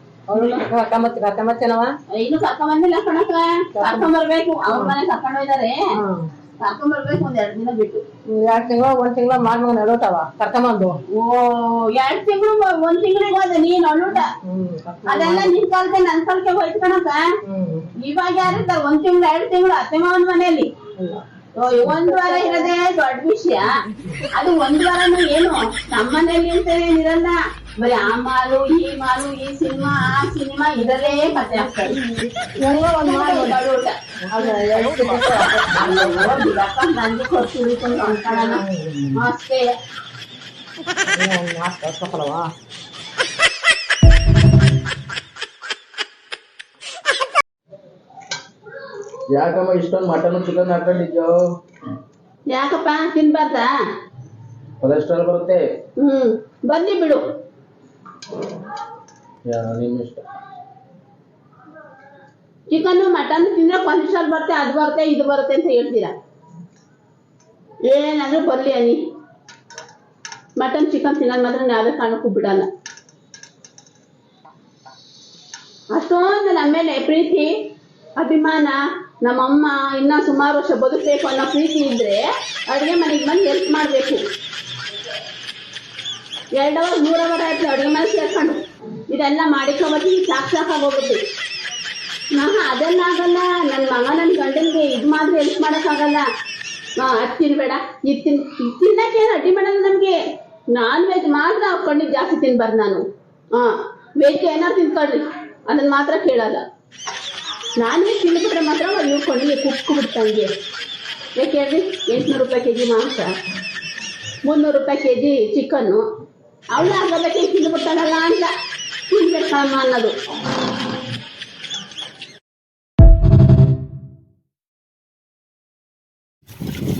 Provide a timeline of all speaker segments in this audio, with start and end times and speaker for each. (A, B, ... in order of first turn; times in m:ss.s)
0:00.3-0:01.9 A
0:00.3-0:00.6 B
0:02.1-0:05.8 B
0:03.8-0:04.1 A
0:04.7-0:05.0 A
0:06.0-0:06.3 A
0:06.6-0:08.0 B
0:08.3-0:11.0 A
0:11.1-0:14.3 B
0:14.4-0:15.6 A
0:15.1-0:17.2 B
0:17.5-0:17.9 A
0:18.0-0:20.7 B
0:21.6-0:32.0 B
0:21.8-0:22.7 A
0:31.2-0:33.6 A
0:32.9-0:33.9 B
0:34.3-0:36.5 A
0:35.6-0:38.6 B
0:38.2-0:39.2 A
0:39.2-0:39.7 B
0:41.1-0:42.5 A
0:49.3-0:51.5 C
0:52.5-0:53.7 B
0:54.8-0:55.6 C
0:56.0-0:57.2 B
0:59.5-1:00.2 C
1:02.7-1:06.1 B
1:07.9-1:09.0 B
1:10.6-1:12.7 B
1:15.9-1:17.5 B
1:18.2-1:24.2 B
1:26.6-1:31.2 B
1:32.3-1:36.2 B
1:37.0-1:40.2 B
1:40.7-1:43.0 B
1:43.6-1:46.6 B
1:47.8-1:50.5 B
1:51.4-1:53.3 B
1:54.4-1:56.0 B
1:56.7-1:58.5 B
1:59.1-2:00.1 B